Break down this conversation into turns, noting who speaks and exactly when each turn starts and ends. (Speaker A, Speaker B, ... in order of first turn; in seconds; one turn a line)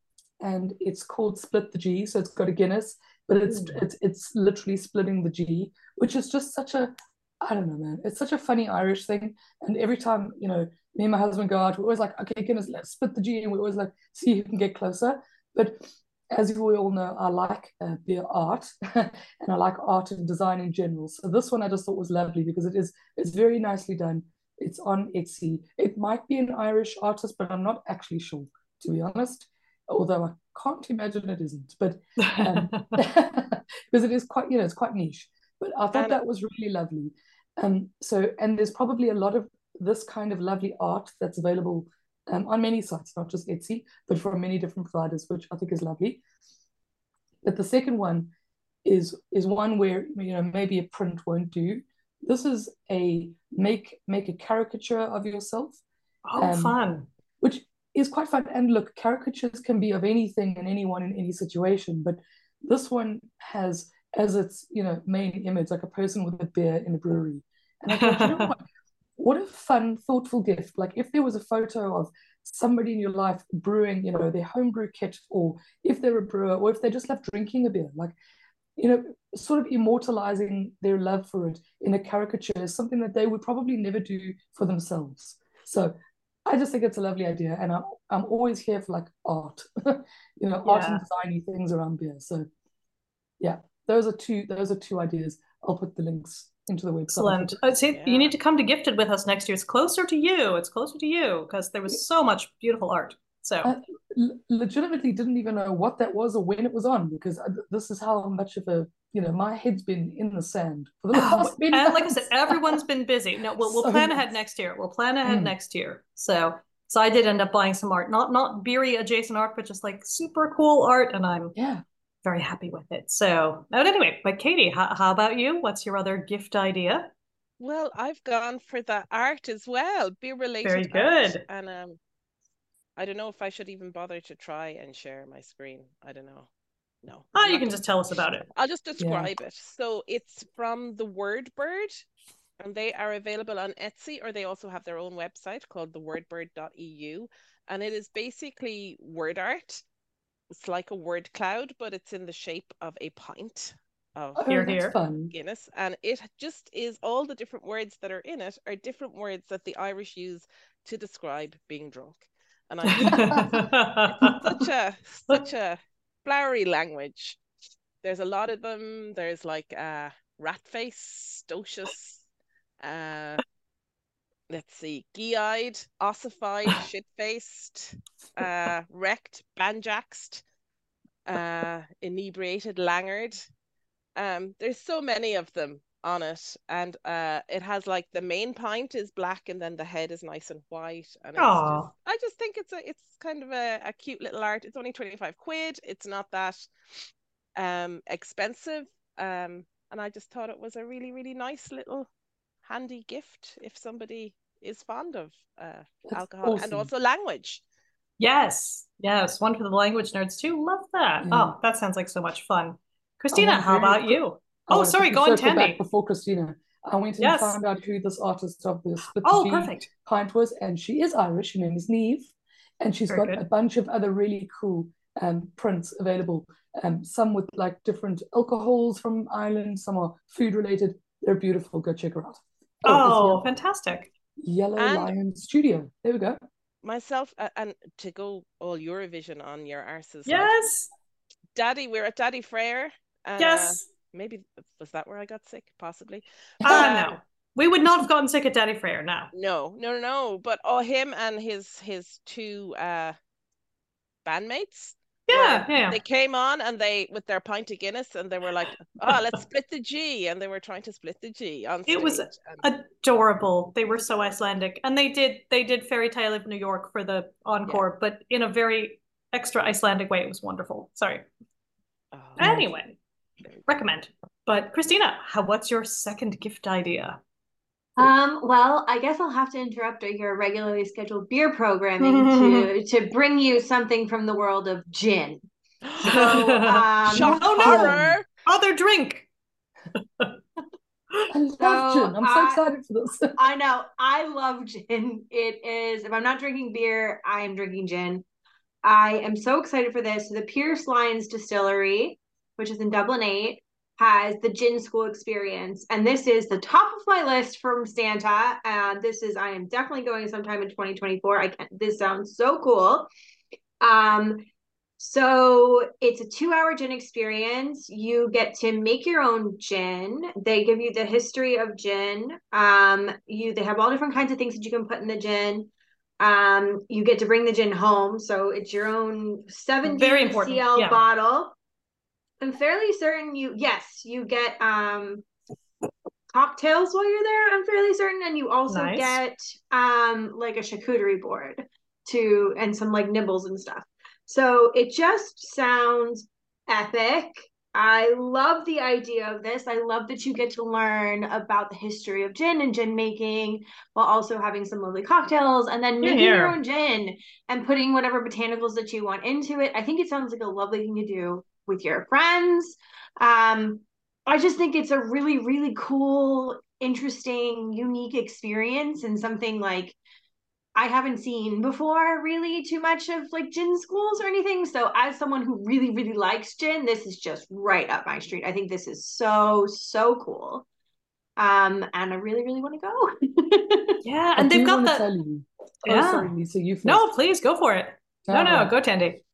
Speaker A: 0.4-46.2
Speaker B: 3.5-3.8
Speaker B: 32.2-32.9
Speaker C: 35.9-36.2
Speaker A: 47.4-48.3
Speaker A: 48.8-55.8
Speaker B: 56.2-57.1
Speaker A: 56.4-56.8
Speaker A: 57.4-68.6
Speaker B: 67.9-68.5
Speaker A: 69.2-78.1
Speaker A: 78.8-92.5
Speaker B: 90.6-91.0
Speaker A: 93.4-97.5
Speaker B: 97.1-103.7
Speaker C: 97.9-98.3
Speaker A: 103.6-112.8
Speaker B: 111.1-121.5
Speaker A: 113.6-114.3
Speaker A: 115.2-115.5
Speaker A: 121.5-121.8
Speaker B: 122.2-127.1
Speaker C: 127.6-132.0
Speaker B: 130.6-131.4
Speaker C: 133.0-136.5
Speaker C: 137.0-137.8
Speaker B: 137.3-138.4
Speaker C: 138.5-142.0
Speaker A: 139.0-139.3
Speaker C: 142.6-149.8
Speaker C: 150.5-154.5
Speaker A: 154.3-155.3
Speaker B: 154.5-154.9
Speaker C: 155.3-167.4
Speaker B: 162.9-164.4
Speaker A: 163.1-163.5
Speaker C: 168.0-172.2
Speaker C: 172.8-173.4
Speaker C: 174.5-180.4
Speaker C: 181.2-183.4
Speaker C: 184.2-196.7
Speaker B: 191.4-191.9
Speaker C: 197.6-202.1
Speaker C: 202.6-207.6
Speaker A: 206.0-206.9
Speaker B: 208.2-215.8
Speaker A: 211.2-211.5
Speaker A: 213.3-233.4
Speaker B: 217.2-217.6
Speaker B: 219.2-219.9
Speaker B: 223.1-223.4
Speaker B: 232.8-234.1
Speaker A: 234.4-236.4
Speaker C: 234.8-235.1
Speaker C: 236.8-240.6
Speaker B: 240.2-240.9
Speaker C: 241.5-247.2
Speaker B: 243.4-243.8
Speaker A: 246.6-246.9
Speaker B: 246.6-249.3
Speaker C: 249.3-253.2
Speaker C: 254.2-262.6
Speaker B: 255.3-256.0
Speaker B: 261.9-271.2
Speaker C: 272.1-272.5
Speaker A: 272.4-272.7
Speaker B: 272.4-273.0
Speaker B: 273.7-277.2
Speaker D: 278.0-285.4
Speaker B: 282.0-282.7
Speaker C: 285.9-286.4
Speaker D: 286.0-287.9
Speaker B: 286.0-289.3
Speaker C: 287.0-288.2
Speaker A: 291.3-293.5
Speaker D: 291.6-292.6
Speaker D: 293.4-298.2
Speaker D: 298.8-313.1
Speaker D: 313.8-314.4
Speaker D: 315.0-325.7
Speaker D: 326.2-331.6
Speaker B: 329.9-331.0
Speaker D: 332.4-335.2
Speaker D: 336.3-369.9
Speaker B: 338.7-339.2
Speaker B: 356.0-356.6
Speaker D: 370.7-380.6
Speaker D: 381.4-384.0
Speaker B: 384.0-385.1
Speaker A: 384.4-387.1
Speaker B: 385.9-386.3
Speaker B: 386.8-389.2
Speaker A: 388.3-388.7